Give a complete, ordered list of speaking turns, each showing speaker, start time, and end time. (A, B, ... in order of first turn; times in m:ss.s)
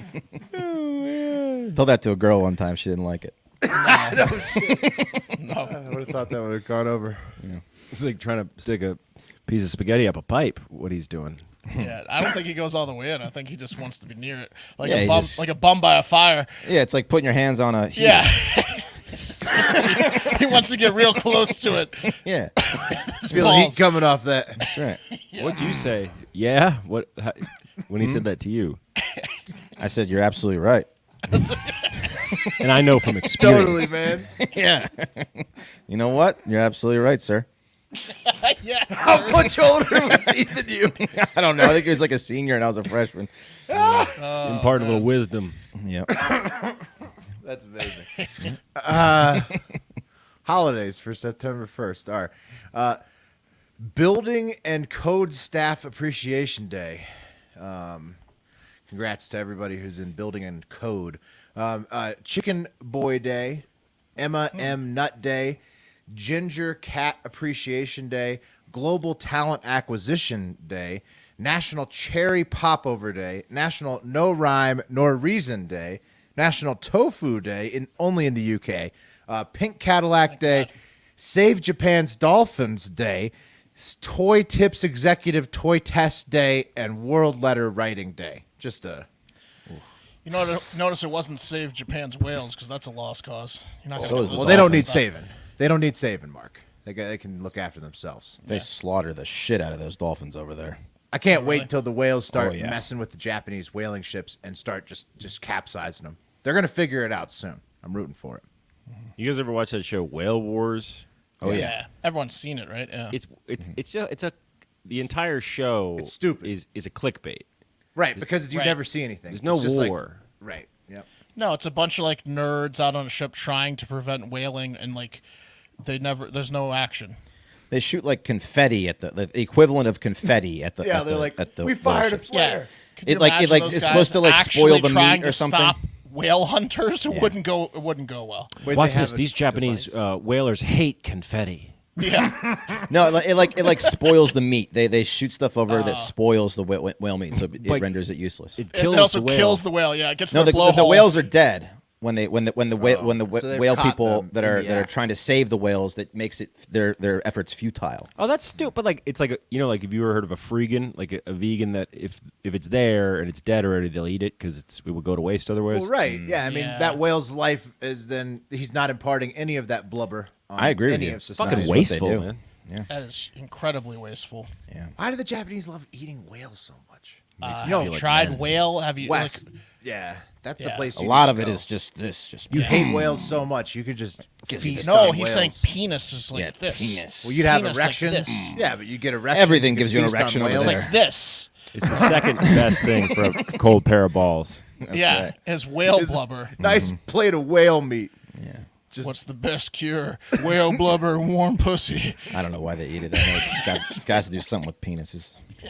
0:00.6-0:01.7 A
0:01.7-0:03.4 B
0:03.6-0:05.0 C
0:03.7-0:04.3 D
0:04.7-0:05.2 B
0:05.3-0:05.8 D
0:05.6-0:07.4 C
0:07.9-0:11.4 A
0:11.7-0:16.6 D
0:14.8-0:15.5 B
0:16.6-0:18.3 B
0:17.9-0:23.9 D
0:22.2-0:22.7 B
0:23.2-0:24.6 C
0:24.6-0:25.0 B
0:25.1-0:25.8 D
0:25.4-0:28.8 A
0:29.8-0:30.9 B
0:31.3-0:32.5 D
0:32.5-0:33.9 A
0:33.3-0:34.3 C
0:33.4-0:33.7 B
0:34.3-0:37.4 B
0:38.1-0:39.5 D
0:38.9-0:41.1 C
0:41.0-0:44.1 B
0:43.7-0:44.1 C
0:44.2-0:45.1 D
0:44.4-0:45.6 A
0:45.7-0:46.2 B
0:47.4-0:48.2 C
0:48.8-0:49.6 C
0:50.4-0:53.0 C
0:53.8-0:58.2 C
0:58.9-1:03.6 C
1:04.2-1:29.1 C
1:20.3-1:20.7 D
1:30.2-1:35.0 D
1:34.0-1:34.9 B
1:34.0-1:38.4 C
1:38.5-1:40.8 B
1:41.1-1:48.4 C
1:41.3-1:41.6 D
1:42.3-1:42.8 B
1:49.2-1:51.0 A
1:51.4-1:51.8 B
1:51.5-1:53.2 D
1:53.1-1:57.4 A
1:56.0-1:56.5 C
1:57.9-2:01.1 C
1:58.1-1:58.6 A
1:59.3-2:00.2 A
2:01.4-2:05.2 D
2:05.8-2:07.2 D
2:07.7-2:12.3 B
2:10.8-2:12.7 C
2:12.3-2:18.6 D
2:13.0-2:15.8 B
2:13.7-2:14.1 C
2:17.1-2:17.3 B
2:18.6-2:20.0 C
2:18.6-2:21.7 A
2:22.0-2:23.0 D
2:22.9-2:28.6 B
2:23.6-2:24.0 D
2:25.7-2:26.1 D
2:27.5-2:27.9 A
2:28.6-2:29.6 A
2:28.7-2:31.1 D
2:30.3-2:38.1 B
2:32.8-2:34.9 C
2:38.2-2:45.9 A
2:45.7-2:51.8 C
2:46.4-2:47.0 D
2:50.6-2:52.9 B
2:51.4-2:52.4 A
2:52.9-2:54.5 D
2:55.0-2:58.0 C
2:57.4-2:58.6 A
2:57.4-2:59.4 D
2:59.0-3:01.6 C
3:00.6-3:00.9 D
3:01.0-3:03.3 B
3:02.5-3:05.7 C
3:04.5-3:05.1 B
3:04.8-3:08.5 D
3:06.3-3:07.5 B
3:07.2-3:10.9 C
3:08.3-3:08.7 B
3:09.3-3:10.9 B
3:10.5-3:11.5 D
3:11.7-3:14.6 A
3:12.4-3:12.7 B
3:14.8-3:15.3 B
3:14.9-3:16.5 D
3:15.9-3:18.1 C
3:16.6-3:17.0 B
3:18.3-3:18.6 B
3:18.9-3:19.2 C
3:19.0-3:22.4 D
3:22.3-3:25.3 B
3:23.2-3:23.7 D